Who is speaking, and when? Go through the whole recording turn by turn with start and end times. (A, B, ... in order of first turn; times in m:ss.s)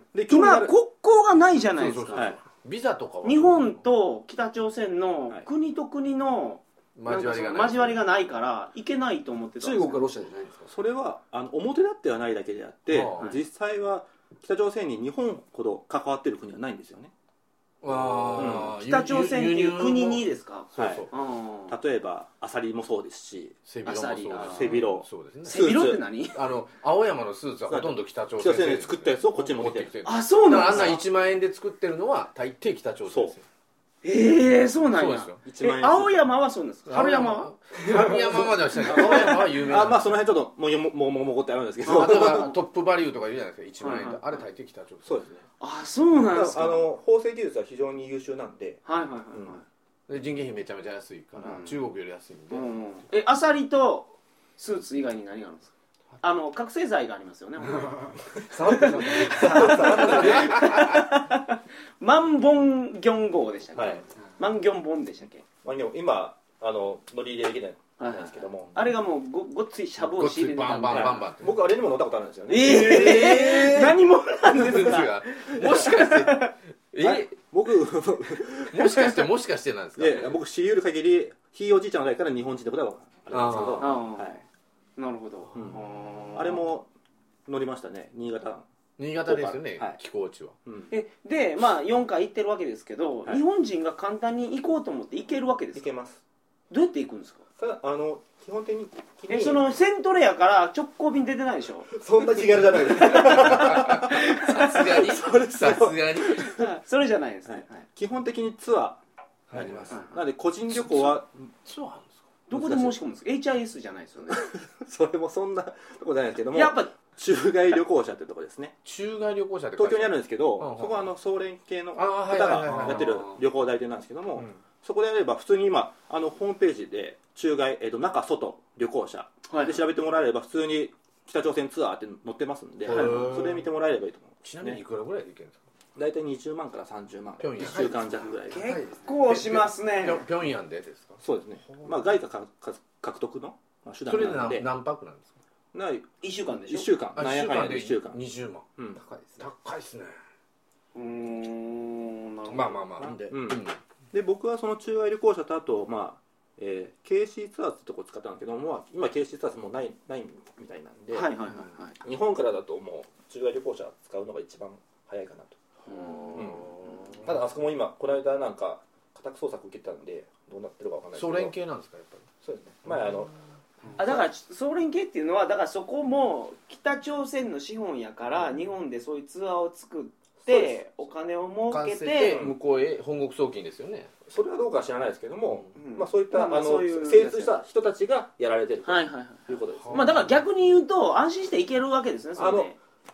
0:00.1-0:00.7 A
0:00.3-0:02.3 B
0:01.7-0:03.8 C
0:03.2-0:10.0 B
0:07.0-0:08.0 C
0:09.6-0:10.7 D
0:10.6-0:17.1 A
0:12.9-0:13.3 C
0:17.8-0:20.2 C
0:18.3-0:18.7 A
0:18.4-0:21.7 B
0:20.7-0:21.1 C
0:20.8-0:21.1 A
0:21.7-0:23.6 A
0:23.6-0:25.8 C
0:23.8-0:24.8 B
0:24.4-0:26.0 A
0:25.4-0:26.4 B
0:26.3-0:33.4 C
0:27.7-0:29.9 A
0:30.0-0:31.0 B
0:30.6-0:31.0 A
0:33.1-0:33.3 A
0:34.0-0:37.5 B
0:34.9-0:35.4 C
0:35.4-0:36.2 A
0:36.9-0:40.1 C
0:38.1-0:42.5 A
0:38.9-0:39.3 B
0:41.8-0:42.5 B
0:41.9-0:45.2 C
0:43.8-0:44.4 B
0:45.0-0:45.4 A
0:45.6-0:46.8 B
0:46.3-0:49.6 A
0:48.8-0:49.6 B
0:50.1-0:52.7 C
0:51.4-0:51.7 B
0:52.5-0:58.2 B
0:58.5-1:00.1 D
0:58.7-1:05.4 B
0:59.1-1:00.8 A
1:00.4-1:00.8 C
1:03.7-1:04.0 A
1:05.6-1:08.8 A
1:08.0-1:11.3 B
1:10.0-1:11.5 C
1:10.9-1:14.0 A
1:12.5-1:16.5 B
1:12.6-1:13.9 C
1:14.5-1:17.3 C
1:17.0-1:19.1 A
1:18.6-1:20.3 C
1:20.0-1:24.4 A
1:23.3-1:24.0 C
1:23.8-1:24.4 B
1:25.0-1:26.6 B
1:25.5-1:25.8 A
1:26.3-1:26.9 A
1:27.5-1:28.6 A
1:29.0-1:30.5 C
1:29.2-1:30.0 A
1:30.6-1:30.9 A
1:30.9-1:35.8 B
1:35.7-1:36.2 A
1:36.7-1:37.4 B
1:37.6-1:39.6 A
1:39.3-1:41.9 B
1:41.9-1:46.7 A
1:43.0-1:44.9 B
1:43.2-1:46.6 C
1:46.5-1:47.8 B
1:47.5-1:49.0 A
1:49.5-1:50.0 C
1:49.5-1:51.5 A
1:49.9-1:50.2 B
1:50.8-1:52.2 C
1:52.5-1:54.4 B
1:52.5-1:52.9 A
1:54.3-1:58.7 A
1:56.5-1:56.9 B
1:58.8-2:01.0 C
1:59.8-2:14.8 A
2:02.0-2:03.4 C
2:09.5-2:09.8 B
2:12.8-2:13.6 C
2:12.9-2:13.3 B
2:14.4-2:15.6 C
2:16.0-2:18.6 A
2:17.4-2:18.0 C
2:18.5-2:20.2 B
2:18.5-2:19.0 D
2:19.2-2:21.2 C
2:21.2-2:24.7 A
2:24.0-2:25.3 C
2:25.7-2:26.1 A
2:26.2-2:26.9 B
2:26.7-2:28.2 A
2:27.2-2:28.6 C
2:29.0-2:29.5 D
2:29.4-2:30.2 C
2:30.9-2:32.8 B
2:32.5-2:33.8 C
2:33.0-2:41.3 A
2:41.1-2:42.0 B
2:42.0-2:45.6 A
2:45.8-2:47.2 B
2:45.9-2:47.2 C
2:46.3-2:51.5 A
2:51.1-2:52.3 C
2:52.4-2:53.3 A
2:54.0-2:54.3 A
2:54.0-3:02.4 B
3:00.4-3:00.8 A
3:01.7-3:04.1 C
3:02.3-3:02.6 A
3:04.2-3:10.2 A
3:05.8-3:07.6 B
3:08.8-3:12.8 B
3:09.8-3:10.3 C
3:12.4-3:12.7 A